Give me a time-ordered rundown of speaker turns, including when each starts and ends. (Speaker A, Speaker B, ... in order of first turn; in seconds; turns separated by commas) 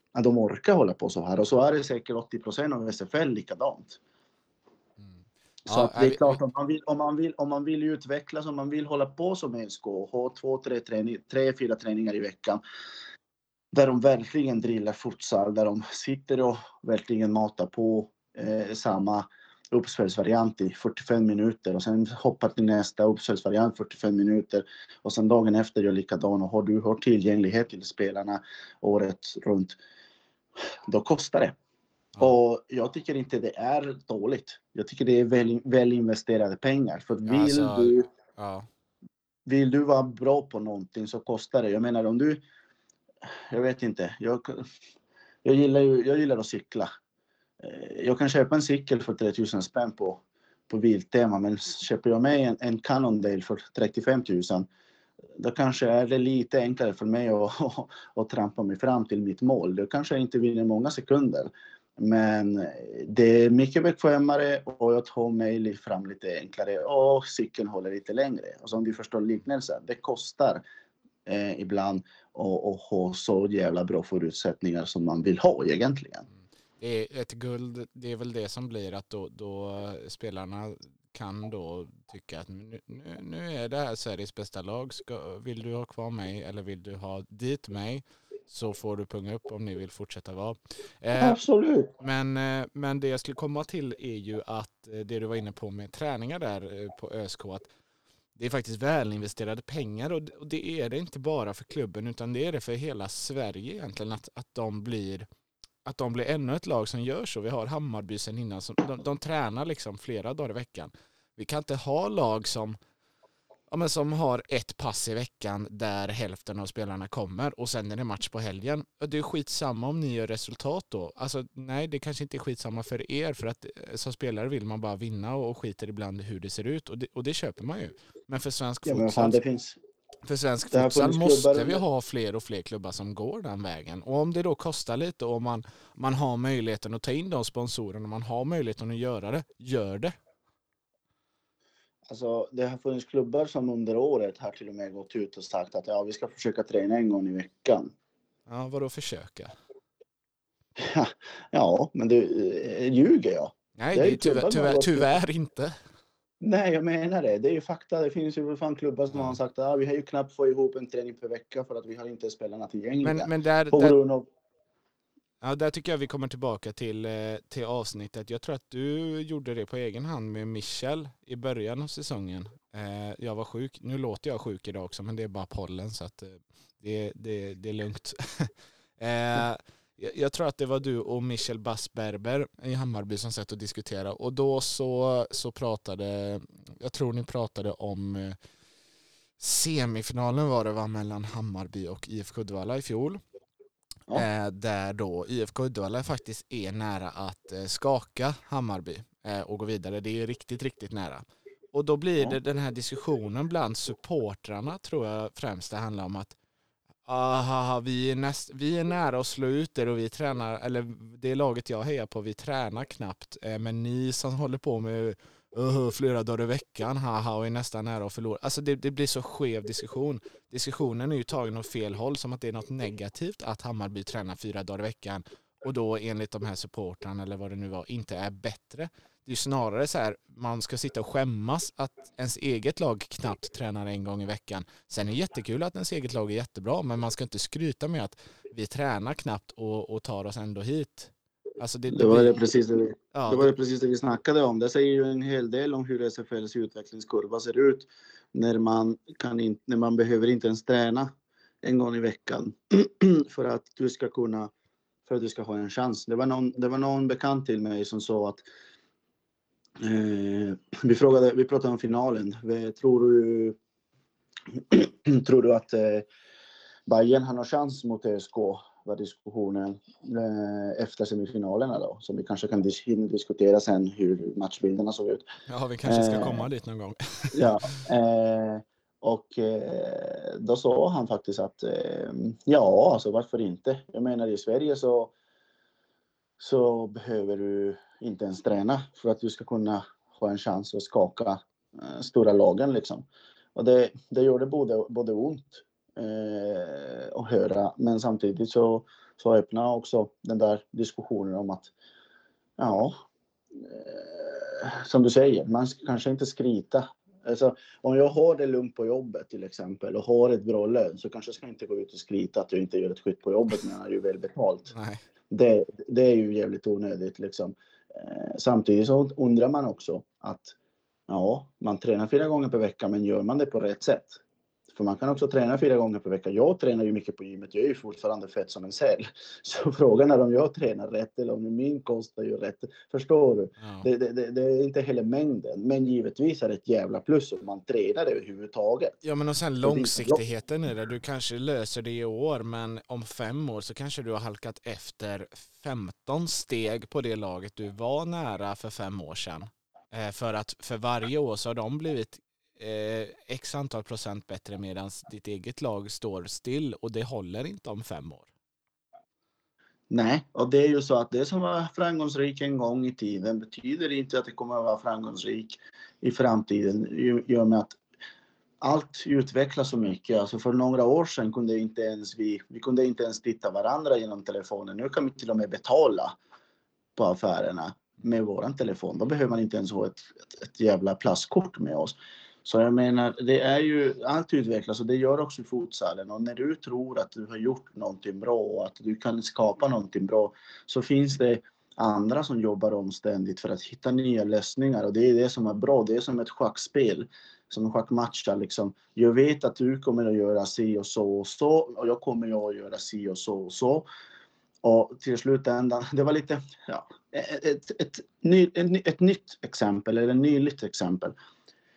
Speaker A: 0.1-4.0, Speaker B: 5.0-6.4, Speaker A: 5.7-12.6, Speaker A: 13.7-29.8, Speaker A: 30.9-31.6, Speaker A: 32.2-38.1, Speaker B: 37.2-38.7, Speaker A: 39.5-42.4, Speaker A: 43.5-44.6, Speaker A: 45.4-46.9, Speaker A: 47.6-54.7, Speaker A: 55.4-70.6, Speaker A: 71.2-76.3, Speaker B: 76.8-91.4, Speaker A: 91.2-91.9, Speaker B: 92.0-97.7, Speaker B: 98.3-105.2, Speaker B: 105.8-112.8, Speaker B: 113.7-129.4, Speaker A: 128.8-129.8, Speaker B: 130.2-140.1, Speaker A: 130.7-131.8, Speaker A: 142.1-147.9, Speaker B: 148.5-149.5, Speaker A: 150.8-155.2, Speaker B: 153.8-155.7, Speaker A: 156.4-164.3, Speaker B: 163.0-163.9, Speaker B: 165.4-188.4, Speaker B: 189.4-193.2, Speaker B: 194.1-206.3, Speaker B: 207.0-242.4, Speaker A: 241.9-251.1, Speaker B: 243.1-243.5, Speaker A: 251.6-254.5, Speaker A: 255.1-258.4, Speaker A: 259.8-263.6, Speaker A: 264.5-266.1, Speaker A: 266.9-275.2, Speaker B: 275.5-277.7, Speaker A: 275.9-276.5, Speaker A: 277.3-285.1, Speaker A: 286.4-301.7, Speaker A: 302.6-303.0, Speaker A: 303.6-314.7, Speaker B: 314.7-315.0, Speaker A: 315.3-320.5, Speaker A: 321.1-324.2, Speaker A: 324.7-339.0, Speaker B: 333.6-333.9, Speaker B: 339.0-358.3, Speaker A: 339.6-340.2, Speaker A: 359.9-367.8, Speaker A: 368.6-376.1, Speaker A: 376.9-403.9, Speaker A: 404.6-411.1